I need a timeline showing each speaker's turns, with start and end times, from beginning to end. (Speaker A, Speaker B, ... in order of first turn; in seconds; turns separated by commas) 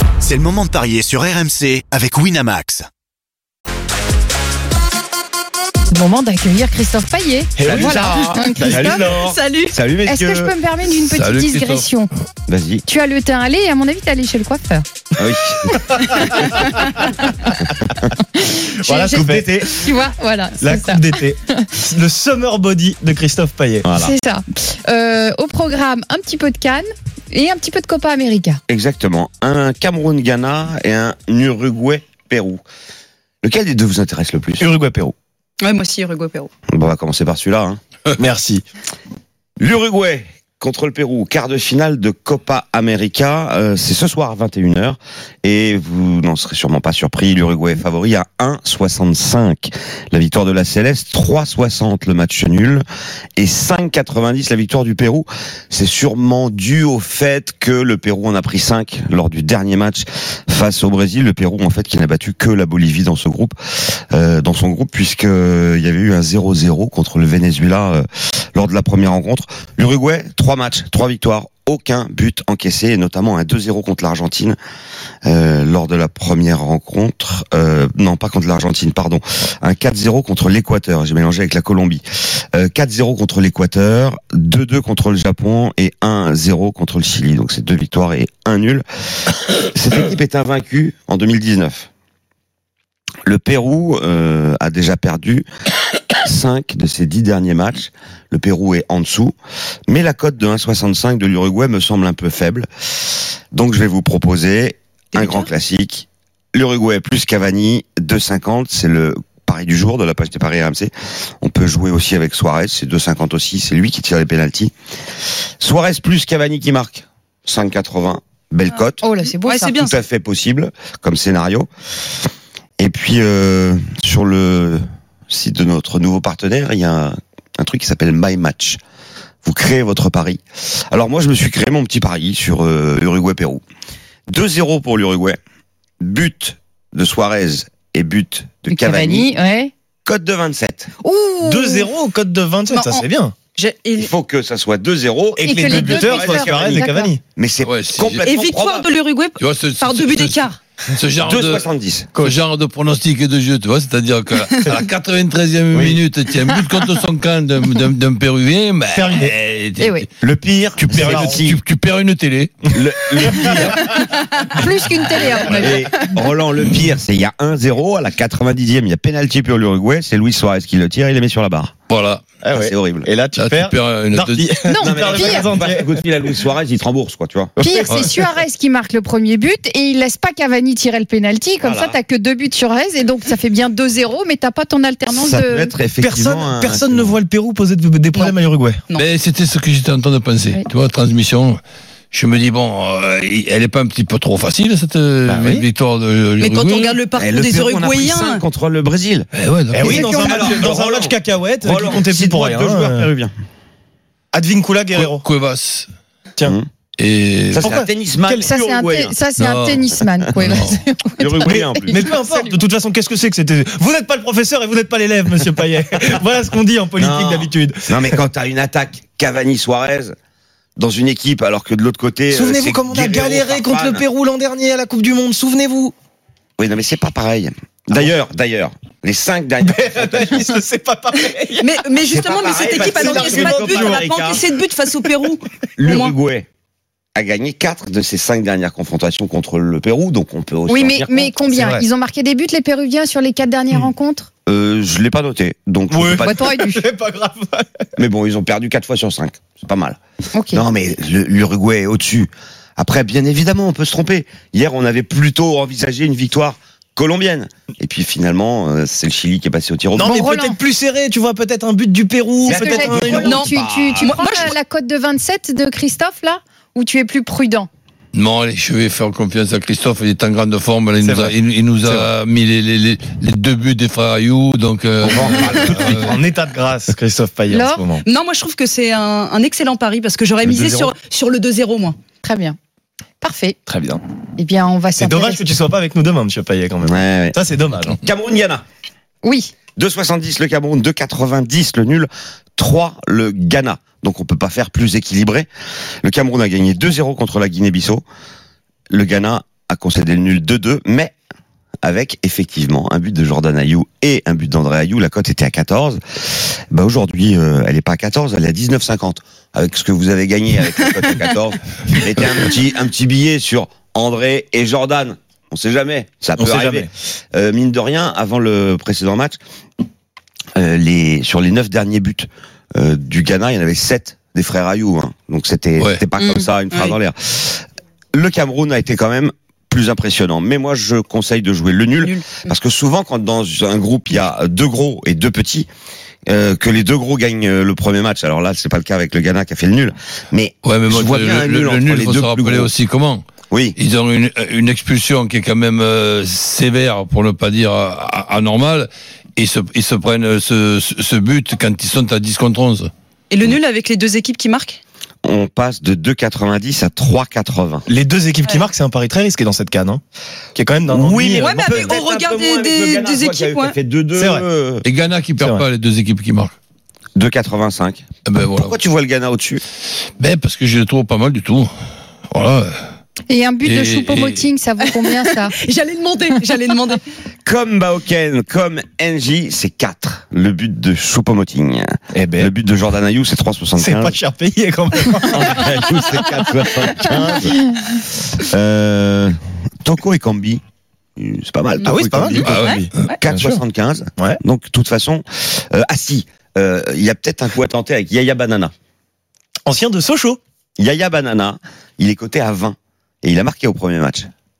Speaker A: 0.2-2.9, Speaker B: 5.9-9.1, Speaker C: 7.6-8.7, Speaker D: 7.6-10.5, Speaker E: 8.9-9.7, Speaker B: 10.1-12.1, Speaker F: 11.1-11.9, Speaker D: 12.5-12.8, Speaker B: 12.8-14.8, Speaker D: 15.2-15.7, Speaker B: 15.7-17.2, Speaker C: 15.9-16.8, Speaker C: 18.7-19.5, Speaker D: 19.1-19.8, Speaker B: 19.7-21.6, Speaker C: 20.6-23.9, Speaker D: 23.8-24.1, Speaker B: 24.0-28.6, Speaker D: 28.7-32.6, Speaker D: 33.4-34.7, Speaker C: 34.6-35.1, Speaker E: 35.6-36.5, Speaker D: 36.7-37.8, Speaker C: 38.2-38.6, Speaker D: 39.6-52.8, Speaker D: 53.4-74.6, Speaker D: 75.2-88.8, Speaker D: 89.6-91.9, Speaker D: 93.2-95.5, Speaker D: 96.2-99.3, Speaker D: 99.9-102.7, Speaker D: 103.5-114.7, Speaker E: 105.1-105.5, Speaker D: 115.6-119.0, Speaker B: 119.0-119.7, Speaker E: 119.4-120.0, Speaker D: 119.7-121.7, Speaker D: 122.8-128.8, Speaker D: 129.4-133.6, Speaker D: 134.3-135.4, Speaker D: 136.0-139.3, Speaker B: 138.7-139.7, Speaker D: 140.0-140.9, Speaker B: 141.0-141.9, Speaker C: 141.4-143.3, Speaker E: 142.7-144.1, Speaker D: 144.0-148.9, Speaker C: 145.4-147.2, Speaker B: 145.4-147.1, Speaker F: 147.6-148.3, Speaker E: 148.2-150.6, Speaker F: 149.4-151.6, Speaker D: 151.2-152.1, Speaker C: 152.1-152.4, Speaker F: 152.2-160.1, Speaker D: 155.7-156.0, Speaker C: 158.9-159.3, Speaker B: 159.8-160.1, Speaker D: 160.2-161.6, Speaker F: 160.8-162.5, Speaker C: 161.0-161.4, Speaker D: 162.7-164.0, Speaker C: 163.3-164.2, Speaker B: 164.5-166.1, Speaker D: 165.2-171.7, Speaker F: 171.9-172.2, Speaker C: 172.4-175.9, Speaker D: 172.5-173.1, Speaker F: 173.3-174.6, Speaker B: 174.6-175.5, Speaker D: 174.8-177.5, Speaker C: 177.6-178.3, Speaker B: 177.6-185.7, Speaker D: 181.6-182.0, Speaker D: 185.1-187.1, Speaker C: 186.0-188.8, Speaker F: 189.0-191.6, Speaker F: 192.1-197.0, Speaker C: 195.3-195.6, Speaker E: 196.4-198.4, Speaker D: 197.2-199.3, Speaker F: 199.3-200.0, Speaker C: 199.7-203.1, Speaker D: 199.8-203.3, Speaker B: 199.8-200.6, Speaker C: 204.3-205.2, Speaker F: 204.9-205.9, Speaker F: 207.0-207.7, Speaker D: 207.5-209.2, Speaker C: 207.6-208.3, Speaker B: 208.3-212.6, Speaker F: 209.4-209.8, Speaker F: 210.3-210.8, Speaker D: 211.2-212.1, Speaker C: 211.4-218.2, Speaker D: 217.0-220.1, Speaker D: 220.8-224.0, Speaker C: 222.3-225.9, Speaker D: 226.6-230.3, Speaker C: 229.6-231.9, Speaker E: 231.6-236.1, Speaker D: 232.0-234.4, Speaker C: 232.7-234.2, Speaker C: 234.8-235.1, Speaker D: 235.8-236.5, Speaker D: 237.2-241.3, Speaker B: 240.7-244.3, Speaker C: 241.5-241.8, Speaker D: 244.4-246.4, Speaker C: 245.9-247.8, Speaker B: 246.2-246.8, Speaker D: 248.0-250.0, Speaker B: 250.3-250.6, Speaker D: 250.5-260.2, Speaker C: 259.9-263.4, Speaker B: 260.0-260.6, Speaker D: 262.4-264.1, Speaker B: 262.5-267.7, Speaker E: 264.0-264.5, Speaker F: 268.1-276.2, Speaker C: 271.0-272.1, Speaker D: 275.0-276.1, Speaker C: 275.5-278.0, Speaker B: 277.5-277.8, Speaker E: 278.0-281.9, Speaker D: 280.4-280.9, Speaker B: 282.2-282.6, Speaker B: 283.2-283.6, Speaker C: 283.6-284.0, Speaker B: 284.4-285.4, Speaker C: 285.0-288.0, Speaker D: 286.8-287.4, Speaker D: 287.9-288.6, Speaker B: 289.2-289.5, Speaker D: 289.8-295.5, Speaker D: 296.0-298.0, Speaker D: 298.9-301.1, Speaker D: 301.8-319.4, Speaker C: 316.4-316.9, Speaker D: 320.6-335.7, Speaker E: 326.2-326.9, Speaker E: 332.0-332.4, Speaker D: 336.3-342.7, Speaker F: 340.6-343.2, Speaker D: 343.5-343.8, Speaker F: 343.8-352.9, Speaker E: 353.3-354.8, Speaker D: 355.2-357.8, Speaker C: 357.9-360.0, Speaker C: 360.5-361.9, Speaker D: 360.9-364.8, Speaker E: 361.4-363.7, Speaker C: 364.1-364.4, Speaker F: 364.8-366.5, Speaker C: 365.4-365.6, Speaker D: 367.1-369.6, Speaker F: 368.2-368.7, Speaker F: 370.2-371.7, Speaker F: 372.3-372.7, Speaker B: 373.3-375.5, Speaker F: 373.6-374.4, Speaker E: 375.0-377.0, Speaker D: 377.4-384.1, Speaker C: 382.1-382.5, Speaker C: 383.8-385.9, Speaker D: 385.2-390.6, Speaker D: 391.2-398.7, Speaker C: 391.8-393.6, Speaker F: 392.4-393.0, Speaker E: 392.6-393.2, Speaker C: 399.7-400.4, Speaker D: 400.8-404.3